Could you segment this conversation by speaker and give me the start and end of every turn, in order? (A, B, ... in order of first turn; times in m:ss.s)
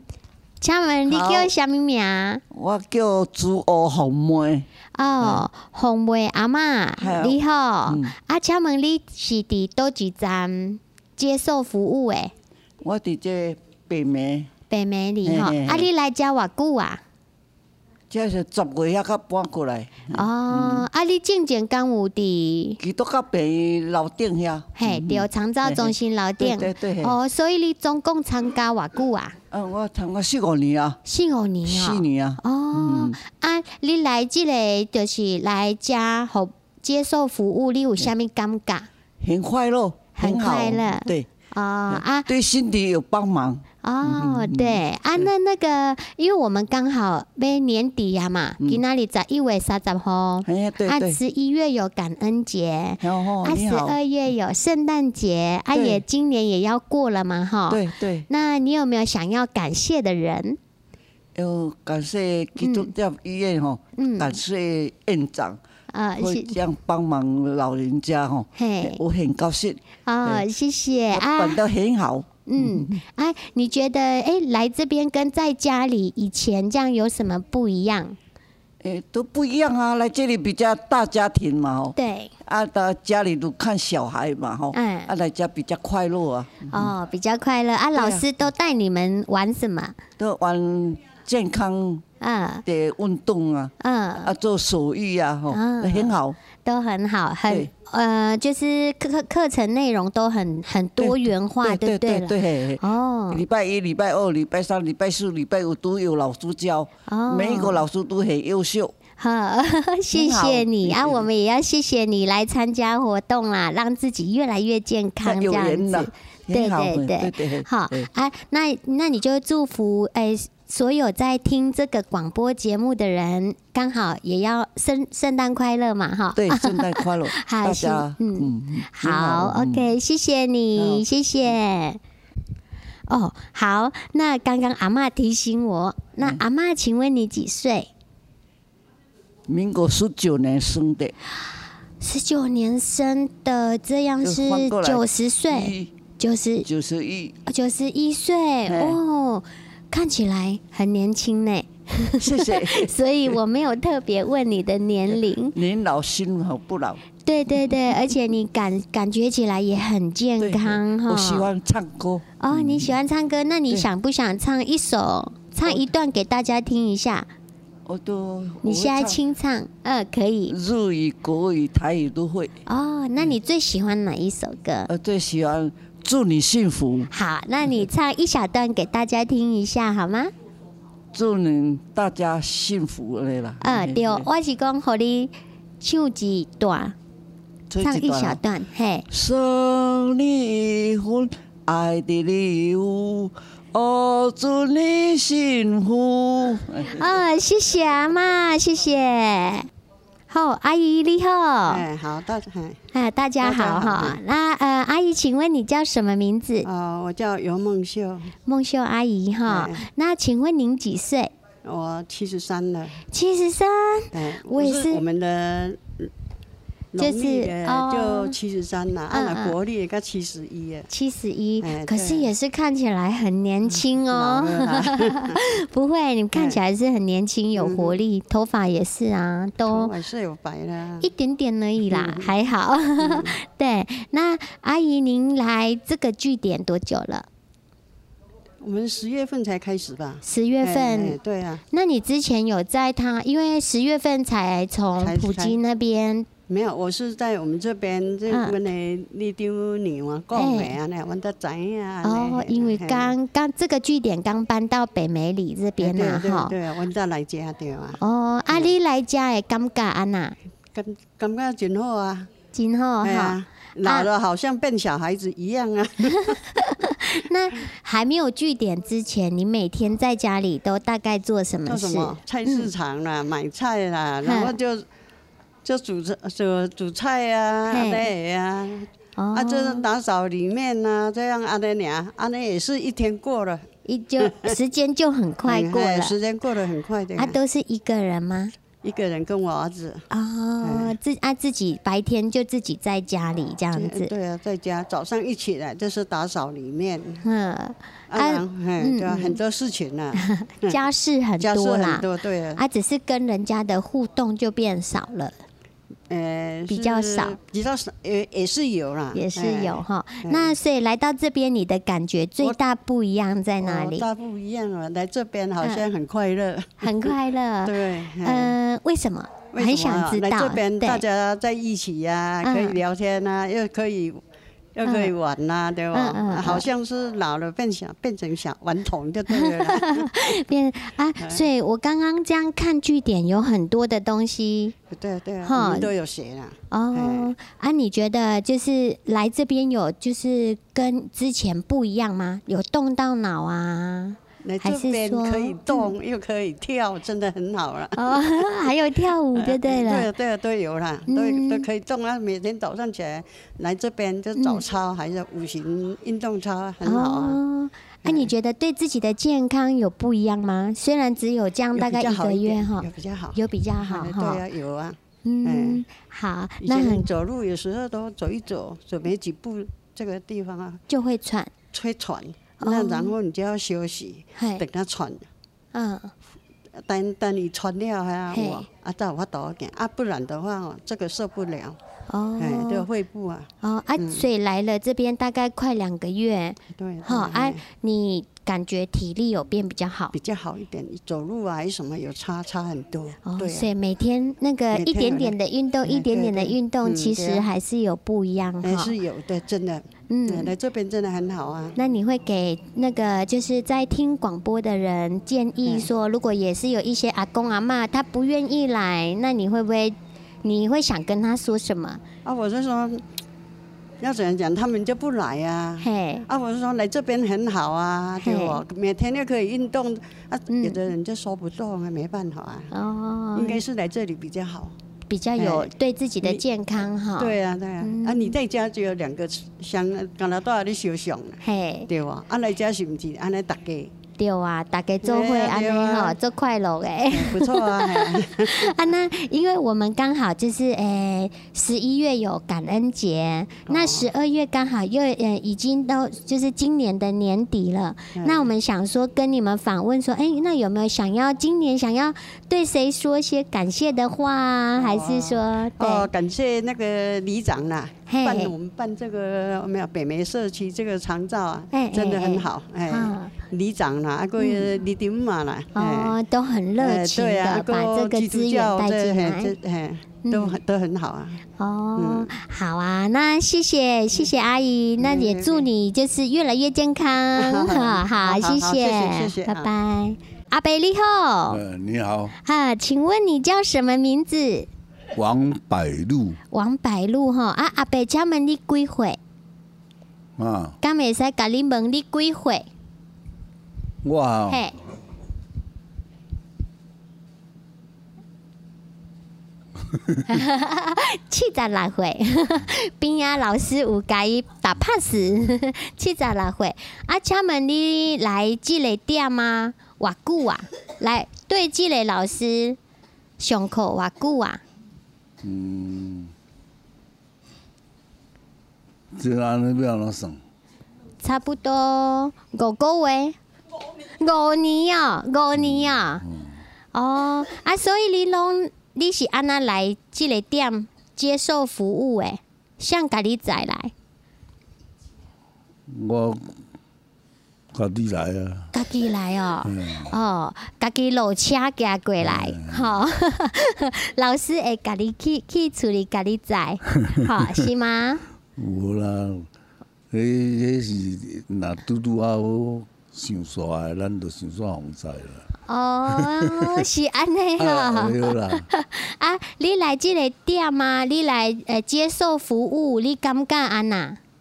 0:00.6-0:02.4 A
0:01.1-0:01.5 B
0:02.5-0:04.7 B
0:04.9-0:12.3 A
0:05.2-0:05.4 B
0:07.0-0:08.1 B
0:12.8-0:14.5 B
0:14.7-0:17.0 A
0:15.2-0:15.9 B
0:18.1-0:20.9 B
0:20.1-0:22.8 A
0:22.8-0:27.1 B
0:24.8-0:29.4 A
0:29.5-0:31.0 B
0:31.0-0:38.9 A
0:31.6-0:33.2 B
0:39.2-0:41.3 B
0:40.2-0:42.3 A
0:41.9-0:45.3 B
0:43.8-1:00.6 A
0:50.4-0:51.2 B
0:53.0-0:54.0 B
0:55.7-0:56.0 B
0:57.7-0:58.2 B
1:01.4-1:05.6 B
1:02.6-1:02.9 A
1:04.0-1:04.4 A
1:05.9-1:06.6 A
1:06.2-1:10.5 B
1:08.6-1:09.0 A
1:10.1-1:11.6 A
1:11.1-1:13.0 B
1:12.5-1:18.2 A
1:18.8-1:26.9 B
1:22.0-1:22.3 A
1:24.7-1:25.1 A
1:26.7-1:30.0 A
1:27.9-1:28.4 B
1:30.2-1:32.0 B
1:32.2-1:32.6 A
1:32.6-1:36.4 B
1:33.8-1:34.3 A
1:35.5-1:43.4 A
1:41.0-1:48.9 B
1:47.1-1:47.8 A
1:49.2-2:12.0 A
1:50.1-1:51.2 B
1:55.2-1:58.1 B
2:06.4-2:09.8 B
2:10.8-2:11.0 B
2:13.1-2:17.9 A
2:19.5-2:21.1 B
2:22.0-2:26.7 A
2:24.2-2:25.9 B
2:26.6-2:27.4 B
2:27.4-2:35.6 A
2:28.7-2:29.0 B
2:32.2-2:32.9 B
2:35.1-2:37.0 B
2:37.2-2:41.5 A
2:40.4-2:42.9 B
2:42.4-2:47.3 A
2:47.9-2:49.2 B
2:48.6-2:50.5 A
2:50.5-2:52.5 B
2:52.6-2:54.9 A
2:54.9-2:57.1 B
2:57.1-3:00.3 A
3:01.1-3:04.2 B
3:03.6-3:07.0 A
3:07.7-3:08.4 B
3:07.8-3:09.0 A
3:09.1-3:17.0 B
3:16.9-3:19.7 A
3:20.3-3:21.8 A
3:21.7-3:22.8 C
3:22.9-3:26.7 A
3:23.4-3:24.2 C
3:26.6-3:28.3 C
3:28.4-3:31.3 A
3:29.4-3:29.8 C
3:31.6-3:33.0 C
3:33.1-3:35.0 A
3:34.1-3:36.1 C
3:36.9-3:40.9 C
3:37.0-3:38.4 A
3:39.1-3:39.6 A
3:40.9-3:49.9 A
3:41.6-3:42.3 C
3:43.7-3:45.4 C
3:47.6-3:48.0 C
3:49.7-3:51.1 C
3:51.0-3:57.2 A
3:51.9-3:52.3 C
3:53.0-3:53.4 C
3:58.6-4:01.6 C
4:00.2-4:01.2 A
4:01.7-4:06.3 A
4:05.0-4:05.6 C
4:06.5-4:13.1 C
4:10.4-4:10.8 A
4:12.0-4:16.5 A
4:15.8-4:18.0 C
4:18.0-4:20.4 A
4:20.7-4:22.3 C
4:22.5-4:24.1 A
4:23.0-4:26.4 C
4:26.6-4:32.7 A
4:31.7-4:34.8 C
4:34.2-4:34.5 A
4:35.6-4:43.6 C
4:37.7-4:38.1 A
4:39.2-4:39.8 A
4:43.8-4:46.1 A
4:44.2-4:44.5 C
4:45.5-4:47.4 C
4:47.2-4:48.5 A
4:48.8-4:50.0 C
4:50.1-4:54.1 A
4:50.6-4:51.0 C
4:53.8-4:57.2 C
4:57.2-4:59.4 A
4:58.1-5:00.8 C
5:00.2-5:05.4 A
5:01.4-5:02.6 C
5:06.1-5:10.5 C
5:06.7-5:07.4 A
5:09.1-5:14.0 A
5:13.6-5:17.1 C
5:16.8-5:21.0 A
5:17.6-5:18.5 C
5:19.5-5:24.2 C
5:22.4-5:22.8 A
5:24.8-5:30.1 C
5:24.8-5:25.1 A
5:25.9-5:26.7 A
5:29.3-5:34.8 A
5:31.2-5:31.4 C
5:34.9-5:37.3 C
5:35.4-5:35.9 A
5:36.7-5:45.9 A
5:44.4-5:48.5 C
5:48.0-5:50.1 A
5:49.4-5:57.4 C
5:51.1-5:51.7 A
5:54.4-5:54.6 A
5:56.8-6:04.4 A
5:58.0-5:58.3 C
6:01.8-6:05.8 C
6:05.2-6:07.0 A
6:06.6-6:10.8 C
6:10.9-6:11.5 A
6:11.7-6:15.3 C
6:12.6-6:13.1 A
6:14.4-6:14.6 A
6:15.7-6:16.1 A
6:16.8-6:21.8 C
6:18.3-6:18.6 A
6:22.1-6:22.9 A
6:22.4-6:24.3 C
6:23.6-6:30.1 A
6:26.7-6:27.6 C
6:30.1-6:33.7 C
6:33.2-6:38.9 A
6:34.7-6:35.4 C
6:35.9-6:37.4 C
6:38.6-6:41.8 C
6:40.1-6:40.5 A
6:41.8-6:52.0 A
6:52.2-6:53.0 C
6:54.0-7:02.7 C
6:55.8-6:56.2 A
6:58.2-6:58.6 A
7:00.5-7:00.8 A
7:02.7-7:03.6 A
7:03.4-7:04.7 C
7:05.1-7:08.4 A
7:05.4-7:05.7 C
7:07.2-7:13.9 C
7:11.4-7:11.9 A
7:14.2-7:36.1 A
7:15.0-7:16.2 C
7:17.1-7:18.7 C
7:23.7-7:24.1 C
7:28.1-7:28.5 C
7:34.8-7:46.2 C
7:38.1-7:38.5 A
7:41.7-7:43.3 A
7:44.4-7:44.7 A
7:45.8-7:49.5 A
7:46.8-7:51.4 C
7:50.2-7:50.6 A
7:51.6-8:01.6 A
7:52.0-7:52.3 C
7:55.0-7:55.6 C
7:57.4-7:59.7 C
8:01.5-8:02.4 D
8:02.4-8:04.7 A
8:05.1-8:06.4 D
8:06.5-8:09.2 A
8:10.4-8:10.8 D
8:10.8-8:12.6 A
8:14.0-8:14.6 D
8:14.5-8:14.7 A
8:20.3-8:32.8 A
8:33.4-8:34.6 A
8:35.4-8:36.3 D
8:39.1-8:40.4 D
8:41.2-8:43.4 A
8:44.2-8:46.2 A
8:45.6-8:46.6 D
8:46.9-8:53.9 A
8:55.9-8:56.5 D
8:57.7-8:58.7 D
8:58.7-9:08.2 A
8:59.6-9:00.1 D
9:02.2-9:02.9 D
9:08.6-9:09.5 D
9:10.1-9:15.4 D
9:15.7-9:24.2 A
9:16.1-9:16.8 D
9:17.6-9:18.7 D